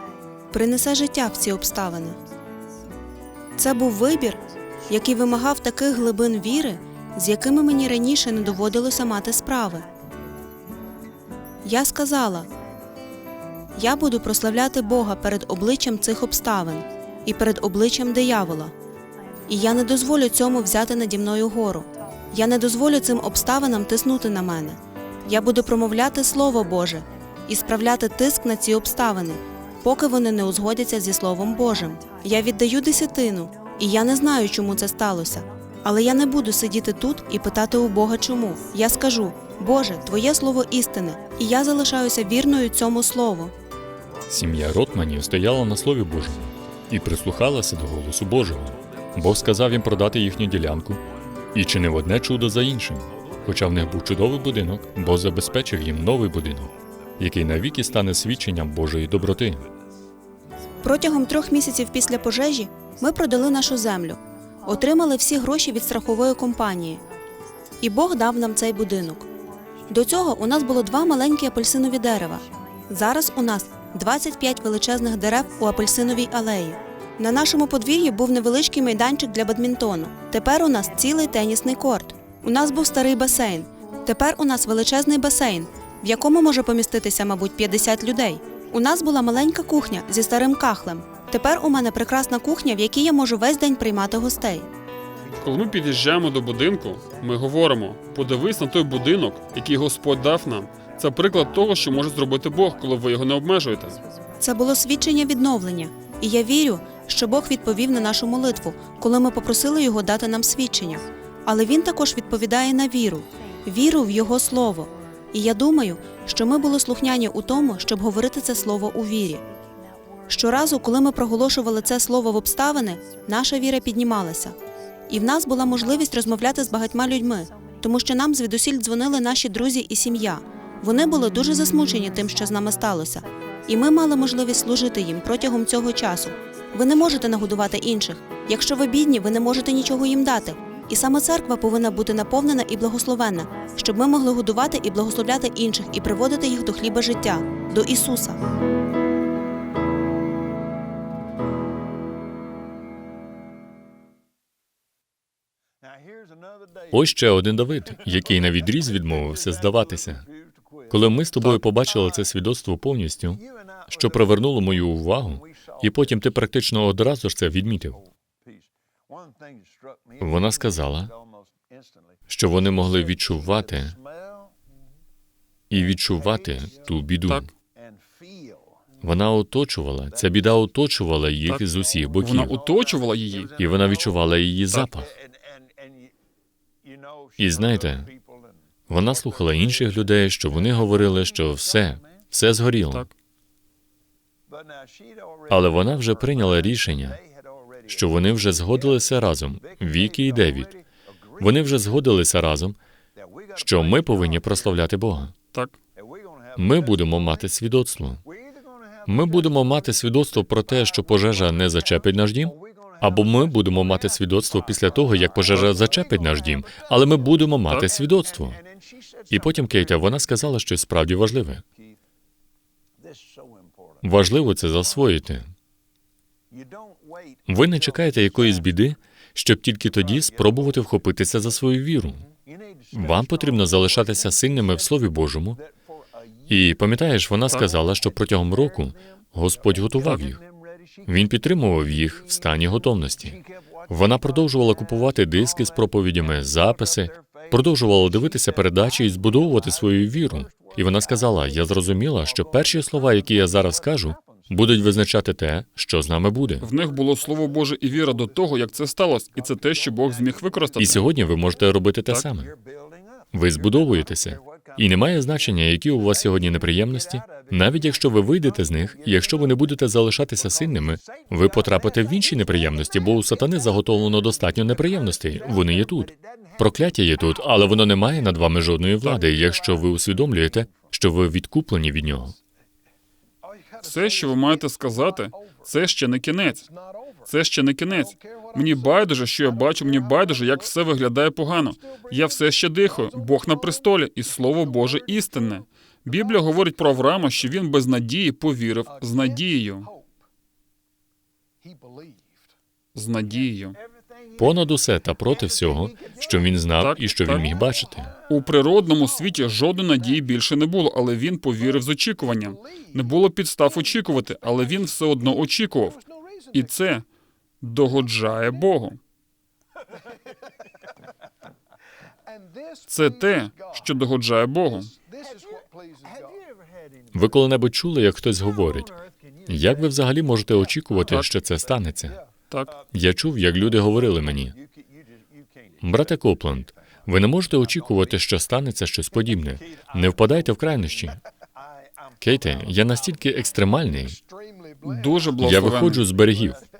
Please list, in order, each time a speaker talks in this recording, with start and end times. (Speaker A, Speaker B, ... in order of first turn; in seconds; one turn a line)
Speaker A: 0.5-2.2
Speaker A: 3.5-9.9
Speaker A: 11.6-12.5
Speaker A: 13.8-18.7
Speaker A: 19.5-43.5
Speaker B: 44.3-51.0
Speaker B: 51.5-59.6
Speaker A: 60.8-67.0
Speaker A: 67.8-69.2
Speaker A: 69.9-94.7
Speaker C: 95.4-104.0
Speaker A: 104.4-119.4
Speaker A: 120.3-124.5
Speaker A: 125.1-148.4
Speaker B: 156.9-160.2
Speaker B: 160.9-168.0
Speaker B: 170.2-171.1
Speaker B: 172.3-174.0
Speaker B: 175.7-177.5
Speaker B: 179.0-182.5
Speaker C: 182.2-183.5
Speaker B: 183.6-185.1
Speaker B: 187.4-188.1
Speaker B: 188.9-193.1
Speaker B: 195.5-197.2
Speaker B: 197.8-200.8
Speaker B: 201.4-202.8
Speaker B: 203.5-205.3
Speaker B: 206.6-208.2
Speaker B: 209.1-218.6
Speaker B: 219.3-221.6
Speaker B: 224.0-225.5
Speaker B: 227.5-232.3
Speaker B: 232.9-235.6
Speaker B: 236.5-240.4
Speaker B: 241.1-256.7
Speaker C: 256.6-261.1
Speaker B: 260.8-262.5
Speaker B: 263.3-282.4
Speaker C: 283.8-286.7
Speaker C: 287.2-299.9
Speaker C: 302.9-303.8
Speaker B: 304.4-308.1
Speaker C: 306.8-307.4
Speaker C: 308.3-317.0
Speaker C: 317.6-319.0
Speaker C: 322.9-324.9
Speaker B: 327.1-328.9
Speaker B: 329.4-332.2
Speaker C: 332.5-332.8
Speaker B: 332.9-334.6
Speaker B: 335.8-341.2
Speaker B: 342.2-344.2
Speaker C: 344.8-346.0
Speaker B: 345.4-346.6